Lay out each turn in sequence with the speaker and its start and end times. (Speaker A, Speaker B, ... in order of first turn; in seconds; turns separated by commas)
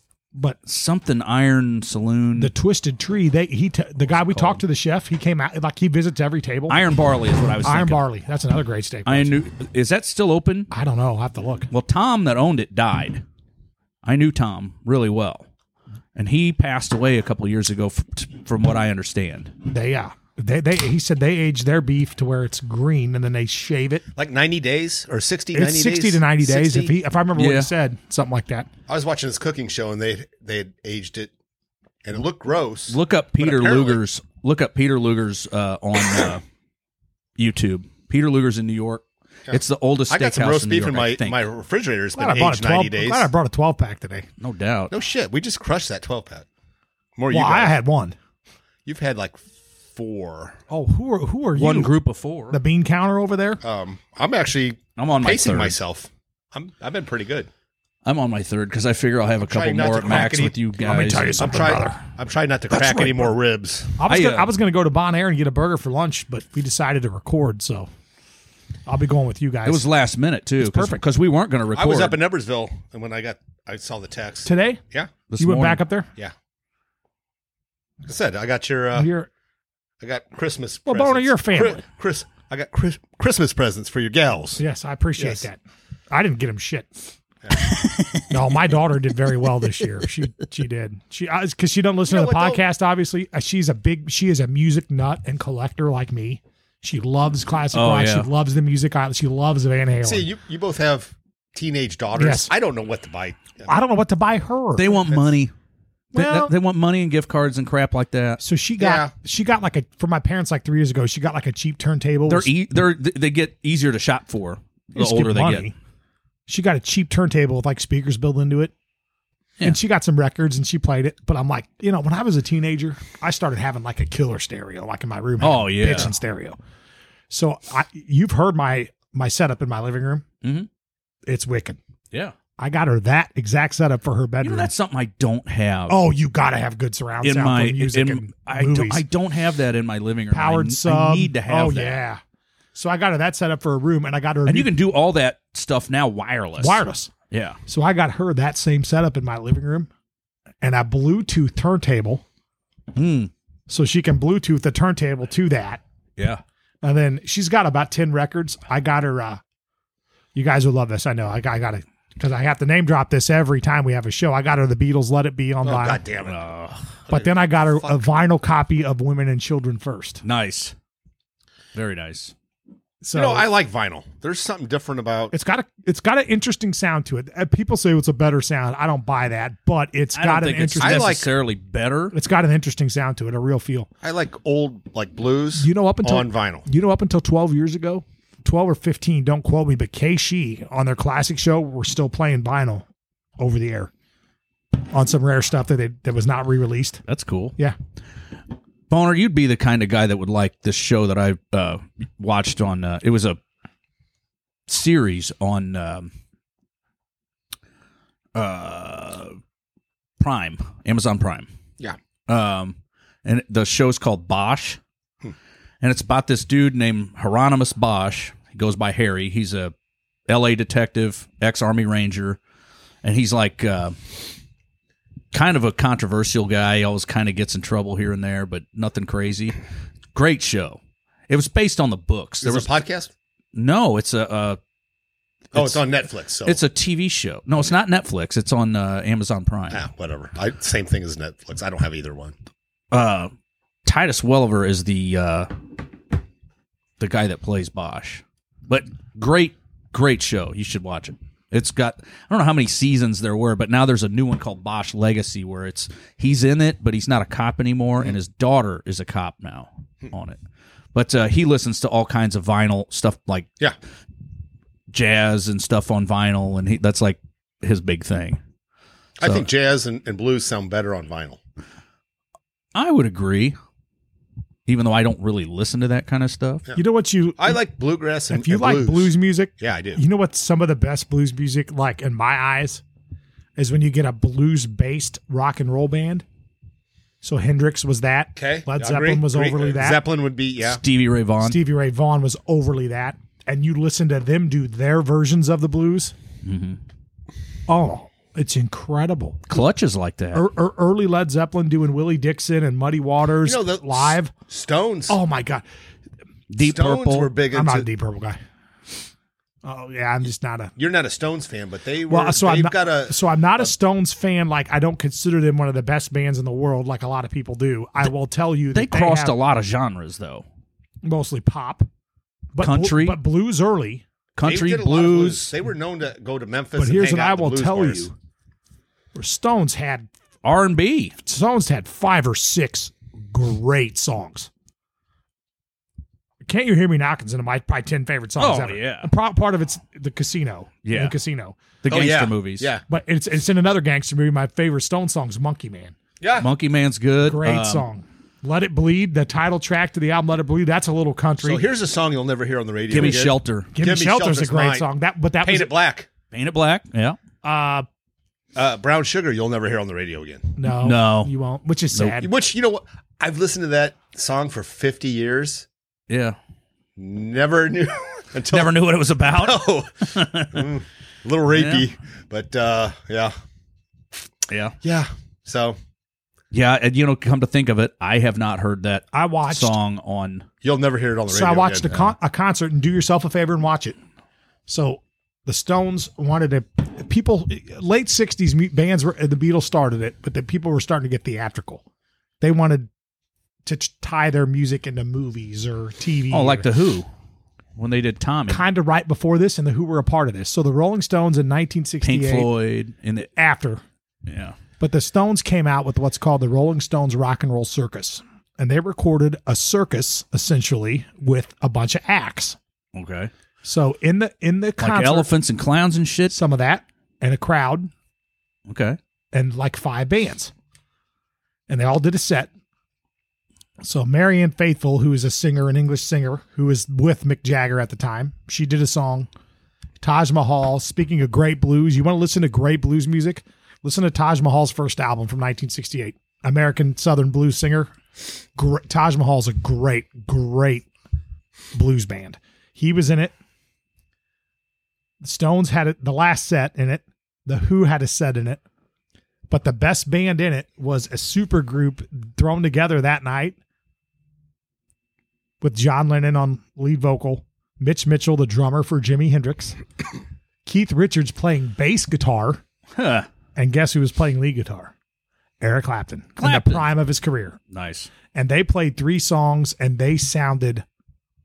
Speaker A: 0.7-2.5, Speaker B: 2.4-6.8, Speaker A: 4.1-4.6, Speaker A: 6.7-8.0, Speaker B: 7.6-9.3, Speaker A: 9.1-10.7, Speaker B: 10.7-11.7, Speaker A: 11.7-13.2, Speaker A: 14.0-15.4, Speaker A: 16.1-19.5, Speaker B: 19.6-24.0, Speaker C: 24.1-27.0, Speaker B: 25.5-28.7, Speaker A: 27.4-27.7, Speaker C: 28.9-31.3, Speaker C: 32.0-34.0, Speaker A: 32.9-36.4, Speaker A: 37.4-41.4, Speaker C: 39.5-43.3, Speaker B: 42.1-44.3, Speaker A: 44.4-44.9, Speaker C: 44.9-46.5, Speaker C: 47.2-47.8, Speaker B: 47.3-48.1, Speaker C: 48.9-50.5, Speaker B: 50.7-51.9, Speaker A: 51.5-52.6, Speaker B: 52.5-53.6, Speaker C: 53.6-57.5, Speaker A: 55.0-55.8, Speaker A: 58.0-61.7, Speaker C: 59.4-60.5, Speaker B: 60.1-62.0, Speaker C: 61.4-64.0, Speaker B: 62.7-63.3, Speaker B: 64.0-67.9, Speaker A: 64.1-64.5, Speaker B: 68.9-69.8, Speaker A: 69.7-72.2, Speaker B: 70.6-71.0, Speaker C: 71.7-75.1, Speaker B: 74.4-74.8, Speaker A: 75.3-75.8, Speaker B: 75.4-76.1, Speaker C: 78.0-79.1, Speaker B: 79.0-79.3, Speaker C: 80.0-84.6, Speaker B: 80.8-81.8, Speaker B: 84.6-85.6, Speaker C: 85.2-85.4, Speaker B: 86.1-87.0, Speaker A: 87.6-88.2, Speaker B: 88.3-100.3, Speaker C: 92.1-92.6, Speaker A: 97.7-98.3, Speaker C: 100.0-103.8, Speaker B: 102.2-102.5, Speaker B: 103.7-105.0, Speaker A: 104.8-105.5, Speaker B: 106.1-106.5, Speaker A: 106.1-108.4, Speaker B: 108.4-112.5, Speaker C: 108.8-109.1, Speaker A: 112.3-115.7, Speaker B: 115.0-115.7, Speaker B: 116.5-118.7, Speaker B: 119.6-126.6, Speaker A: 125.4-126.1, Speaker B: 127.3-130.2, Speaker A: 130.4-130.7, Speaker B: 131.2-131.8, Speaker B: 132.6-134.7, Speaker A: 134.4-136.0, Speaker B: 135.9-139.0, Speaker A: 137.2-142.0, Speaker B: 140.3-142.2, Speaker B: 142.7-144.7, Speaker A: 144.4-147.6, Speaker B: 146.6-147.1, Speaker B: 147.7-149.9, Speaker B: 150.6-152.2, Speaker A: 152.9-153.3, Speaker B: 153.7-155.8, Speaker B: 156.8-159.4, Speaker B: 160.3-166.0, Speaker C: 165.6-166.4, Speaker A: 166.2-166.9, Speaker C: 167.1-168.1, Speaker B: 167.1-170.2, Speaker A: 170.2-170.7, Speaker A: 171.7-172.3, Speaker B: 173.0-173.5, Speaker C: 173.1-175.3, Speaker B: 175.3-181.2, Speaker A: 180.1-182.1, Speaker C: 180.8-181.3, Speaker B: 182.1-183.9, Speaker C: 184.0-186.7, Speaker B: 185.6-192.8, Speaker B: 193.4-193.9, Speaker B: 194.7-197.0, Speaker A: 197.1-197.5, Speaker A: 198.9-203.4, Speaker A: 204.7-206.1, Speaker A: 208.3-209.3, Speaker A: 210.2-211.5, Speaker A: 212.3-214.8, Speaker A: 215.8-219.7, Speaker A: 220.3-222.4, Speaker A: 223.0-223.9, Speaker A: 225.3-229.6, Speaker A: 230.1-232.7, Speaker C: 232.4-233.1, Speaker A: 233.5-234.6, Speaker A: 235.5-235.8, Speaker C: 235.5-236.6, Speaker A: 236.4-239.8, Speaker C: 239.7-242.3, Speaker A: 242.9-243.3, Speaker A: 243.8-245.5, Speaker A: 247.0-260.4, Speaker A: 260.9-263.5, Speaker A: 264.9-268.4, Speaker C: 269.2-271.4, Speaker A: 272.7-273.6, Speaker A: 274.7-276.6, Speaker B: 276.8-277.6, Speaker C: 277.4-280.0, Speaker B: 278.3-282.8, Speaker B: 283.6-286.2, Speaker B: 287.2-290.0, Speaker C: 288.4-290.8, Speaker A: 290.6-291.6, Speaker B: 291.4-296.1, Speaker A: 296.4-296.8, Speaker B: 297.7-299.6, Speaker A: 299.5-300.4, Speaker B: 300.3-304.3, Speaker C: 303.4-305.2, Speaker B: 305.1-305.6, Speaker A: 306.5-307.3, Speaker C: 306.6-307.9, Speaker B: 307.5-308.4, Speaker B: 309.6-310.7, Speaker C: 310.8-313.7, Speaker B: 312.1-319.4, Speaker A: 318.7-320.4, Speaker B: 321.0-321.9, Speaker B: 322.5-324.0, Speaker A: 322.6-323.2, Speaker A: 324.4-325.5, Speaker C: 324.4-328.1, Speaker B: 326.8-328.1, Speaker B: 329.1-330.1, Speaker A: 330.4-331.1, Speaker B: 331.2-334.5, Speaker B: 336.4-341.6, Speaker A: 338.4-339.1, Speaker A: 340.8-341.1, Speaker A: 341.8-342.7, Speaker C: 341.9-342.8, Speaker B: 342.9-345.9, Speaker C: 346.2-346.5, Speaker A: 346.4-347.9, Speaker B: 347.2-351.6, Speaker C: 351.4-354.9, Speaker A: 352.9-353.7, Speaker B: 353.7-355.7, Speaker C: 355.4-356.1, Speaker A: 356.3-357.2, Speaker B: 357.4-357.9, Speaker C: 358.6-360.5, Speaker B: 360.6-362.3, Speaker A: 360.7-361.3, Speaker C: 362.2-365.7, Speaker A: 366.1-366.4, Speaker C: 367.0-373.3, Speaker A: 368.5-370.7, Speaker A: 371.5-371.9, Speaker A: 374.5-374.8, Speaker C: 374.8-375.8, Speaker A: 376.5-380.4, Speaker B: 379.1-379.8, Speaker C: 380.6-382.0, Speaker B: 381.3-383.9, Speaker B: 384.7-391.8, Speaker B: 392.4-392.9, Speaker B: 393.6-396.7, Speaker A: 396.3-397.1, Speaker A: 397.8-398.6, Speaker B: 398.5-402.5, Speaker A: 402.0-403.3, Speaker B: 403.4-403.8, Speaker A: 404.3-404.6, Speaker B: 404.8-412.6, Speaker A: 412.9-413.3, Speaker B: 413.6-415.3, Speaker A: 414.8-416.4, Speaker B: 416.3-417.9, Speaker A: 418.7-419.0, Speaker B: 419.3-420.5, Speaker B: 421.7-422.5, Speaker B: 423.8-429.3, Speaker B: 430.0-437.9, Speaker B: 438.6-440.9, Speaker B: 441.7-443.3, Speaker B: 445.2-448.6, Speaker B: 449.5-453.6, Speaker B: 455.6-459.8, Speaker B: 460.6-462.6, Speaker A: 462.9-463.3, Speaker B: 463.6-464.9, Speaker B: 465.6-467.6, Speaker A: 466.4-466.9, Speaker A: 467.7-468.1, Speaker B: 468.3-470.8